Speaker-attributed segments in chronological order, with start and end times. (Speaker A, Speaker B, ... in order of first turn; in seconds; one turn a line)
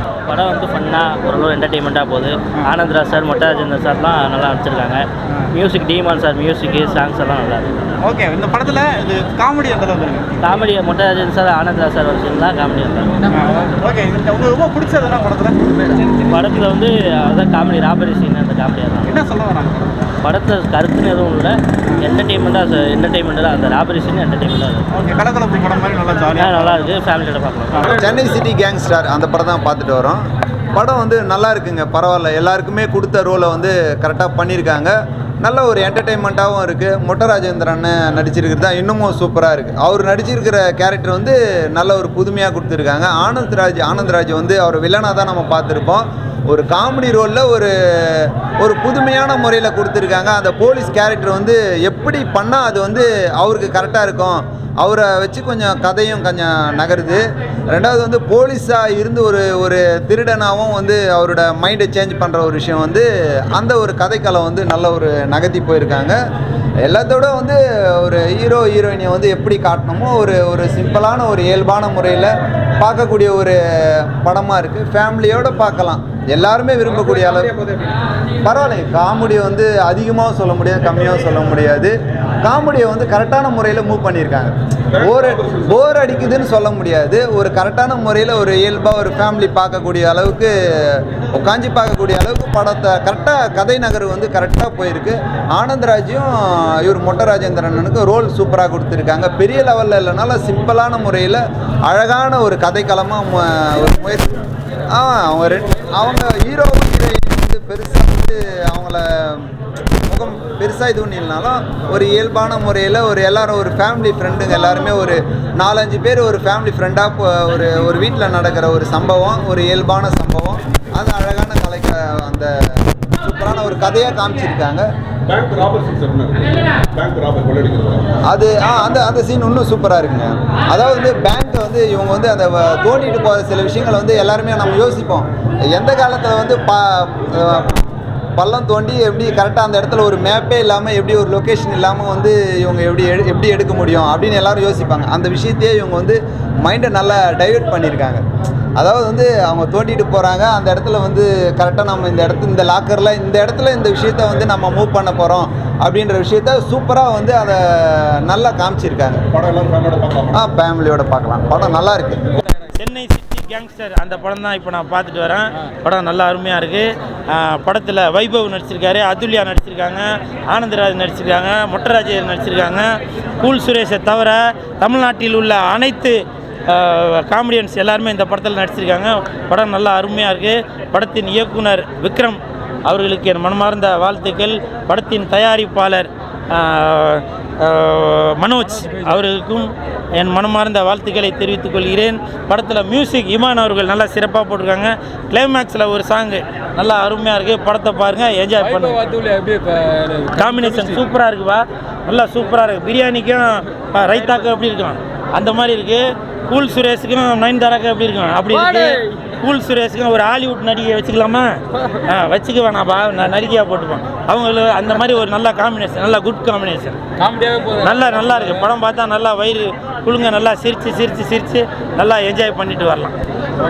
Speaker A: 0.3-7.7
Speaker B: 8.0-10.4
Speaker A: 10.4-13.2
Speaker B: 13.3-15.9
Speaker A: 16.3-19.2
Speaker B: 19.1-20.0
Speaker A: 20.2-24.8
Speaker B: 24.9-26.9
Speaker A: 26.4-27.9
Speaker B: 27.8-28.2
Speaker C: 27.8-30.2
Speaker C: 30.7-66.2
Speaker C: 66.8-77.6
Speaker C: 78.5-104.4
Speaker C: 104.9-109.5
Speaker C: 110.1-124.8
Speaker D: 125.3-128.1
Speaker C: 128.3-137.8
Speaker C: 138.4-148.2
Speaker C: 148.8-159.3
Speaker D: 159.3-160.4
Speaker C: 160.3-162.2
Speaker E: 162.8-199.0
Speaker F: 198.6-200.8
Speaker E: 200.4-217.0
Speaker F: 217.4-217.7
Speaker E: 217.8-223.2